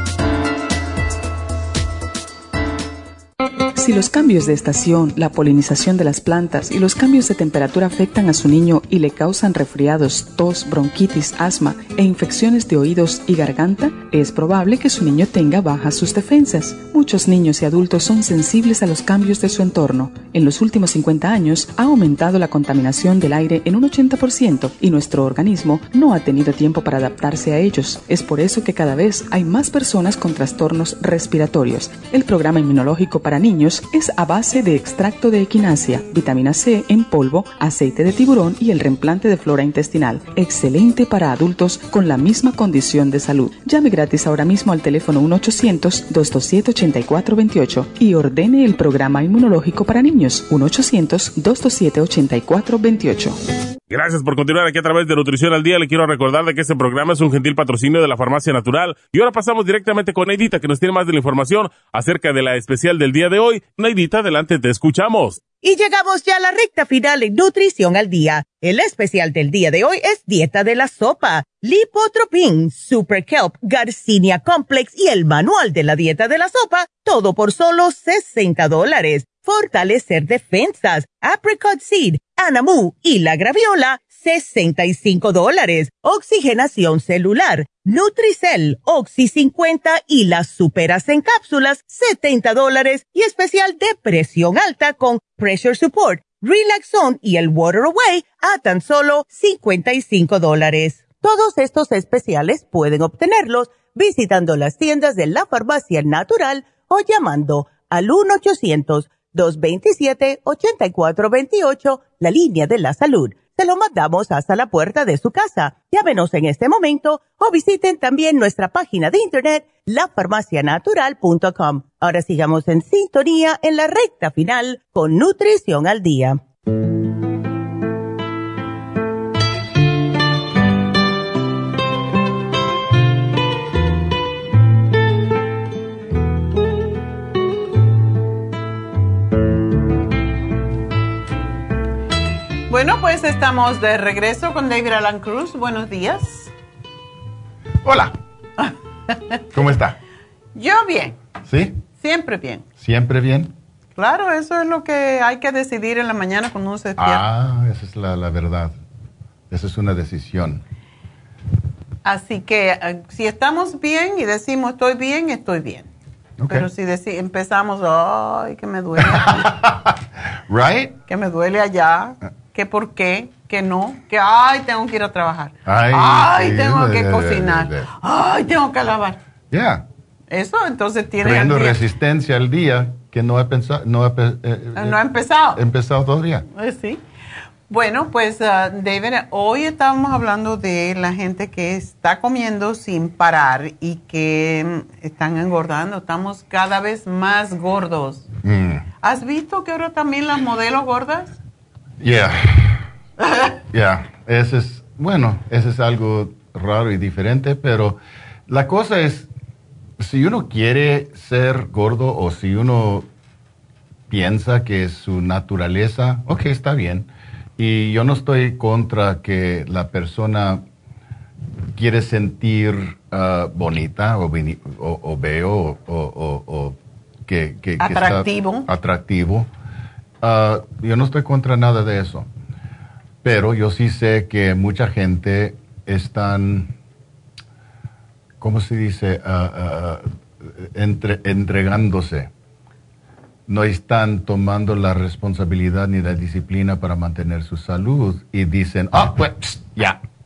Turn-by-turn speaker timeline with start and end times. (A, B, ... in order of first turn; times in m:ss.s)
0:03.8-0:53.4 A
0:53.9-1:05.4 B
1:05.6-2:06.4 C
2:22.7-2:26.5 D
2:27.8-2:28.1 E
2:29.5-2:30.0 E
2:30.6-2:31.2 D
2:31.4-2:31.8 E
2:32.0-2:32.6 D
2:32.8-2:33.5 E
2:34.0-2:37.2 D
2:37.0-2:38.8 E
2:39.5-2:40.6 E
2:42.0-2:45.9 D
2:46.4-2:46.7 E
2:46.5-2:49.5 D
2:49.0-2:49.9 E
2:50.5-2:51.0 E
2:51.1-2:59.2 D
2:55.6-2:57.9 E
2:59.5-2:59.8 E
3:00.3-3:01.8 D
3:01.2-3:05.0 E
3:04.8-3:05.6 D
3:05.5-3:06.4 E
3:06.5-3:07.0 D
3:07.7-3:18.3 D
3:18.4-3:18.8 E
3:19.0-3:21.4 D
3:22.0-3:22.9 E
3:23.7-3:29.3 E
3:30.0-3:33.1 E
3:34.1-3:40.6 E
3:41.7-3:49.5 E
3:47.8-3:48.7 D
3:50.2-3:52.3 E
3:53.2-3:56.7 E
3:58.4-4:00.0 E
4:00.6-4:02.3 E
4:03.5-4:10.0 E